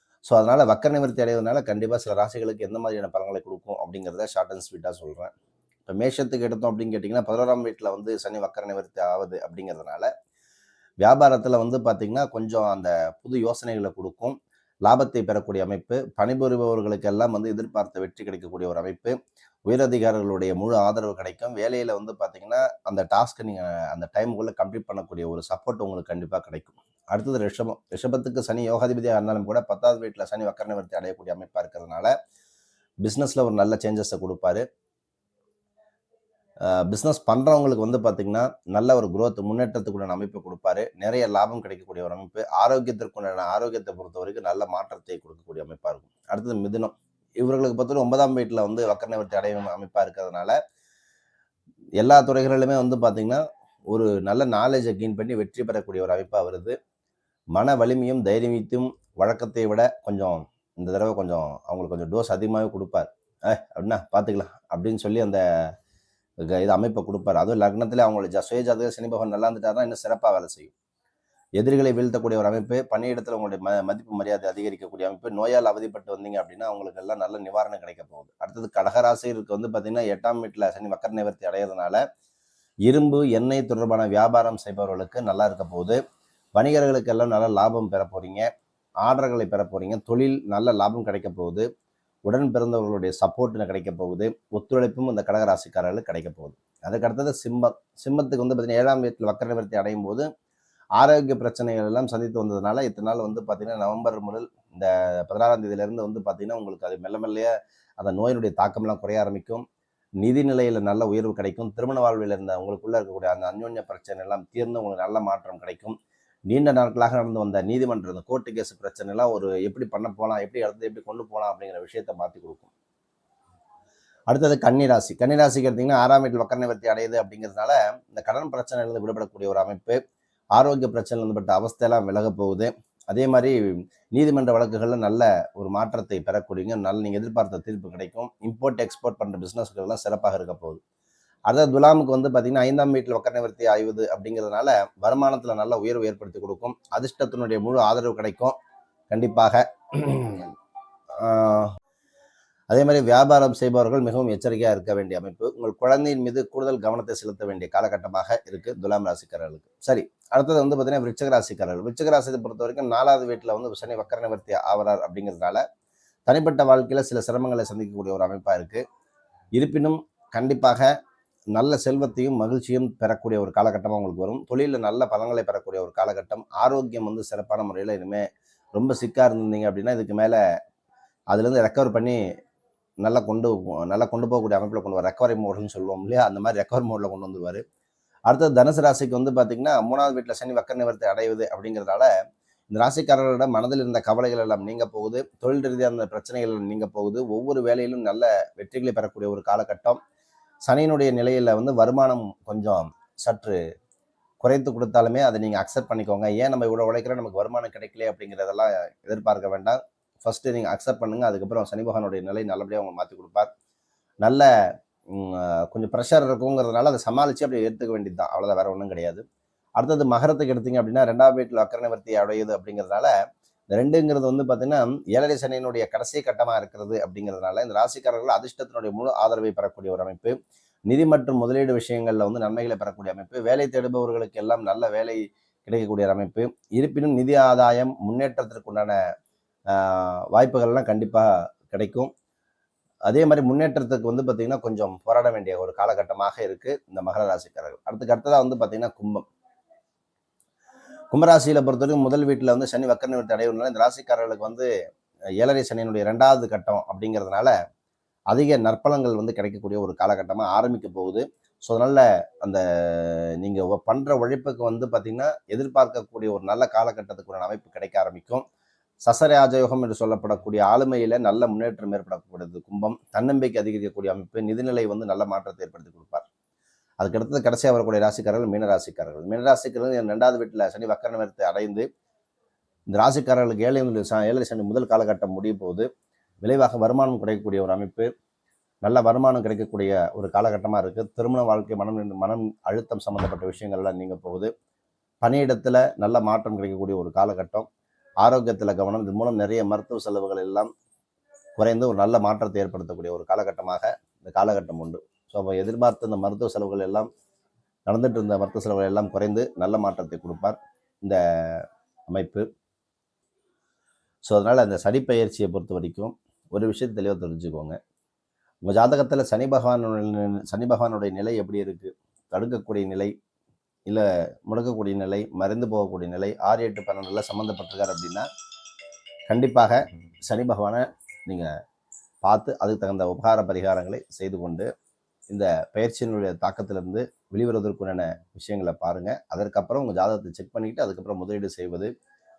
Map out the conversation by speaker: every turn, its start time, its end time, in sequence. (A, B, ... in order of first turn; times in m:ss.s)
0:00.2-0:05.3 A
0:05.8-0:10.1 A
0:11.0-0:19.1 A
0:19.7-0:32.1 A
0:33.0-0:34.6 A
0:36.8-0:50.5 A
0:52.0-0:56.8 A
0:57.5-1:05.4 A
1:06.5-1:10.7 A
1:11.6-1:22.0 A
1:22.8-1:26.0 A
1:26.6-1:28.5 A
1:29.0-1:31.6 A
1:32.2-1:40.2 A
1:41.0-1:49.6 A
1:50.2-1:56.0 A
1:56.5-2:02.7 A
2:04.3-2:10.0 A
2:10.6-2:13.6 A
2:14.1-2:20.8 A
2:21.5-2:28.6 A
2:29.1-2:30.5 A
2:31.2-2:31.7 A
2:32.7-2:45.6 A
2:46.3-2:48.8 A
2:49.6-2:50.9 A
2:51.5-3:00.4 A
3:01.3-3:02.2 A
3:03.0-3:07.6 A
3:08.3-3:12.1 A
3:12.7-3:20.0 A
3:20.7-3:23.6 A
3:24.4-3:33.5 A
3:35.1-3:39.2 A
3:39.8-3:43.1 A
3:43.7-3:50.3 A
3:50.9-3:59.0 A
3:59.7-4:02.1 A
4:03.1-4:09.2 A
4:11.1-4:14.7 A
4:15.4-4:17.5 A
4:18.3-4:28.4 A
4:29.0-4:36.2 A
4:37.0-4:41.8 A
4:42.9-4:45.9 A
4:46.4-4:48.1 A
4:48.8-4:54.5 A
4:55.2-4:57.7 A
4:58.2-5:00.7 A
5:01.6-5:07.1 A
5:07.9-5:12.4 A
5:14.2-5:17.8 A
5:18.6-5:23.1 A
5:23.8-5:28.3 A
5:29.3-5:31.5 A
5:32.2-5:34.7 A
5:35.3-5:41.9 A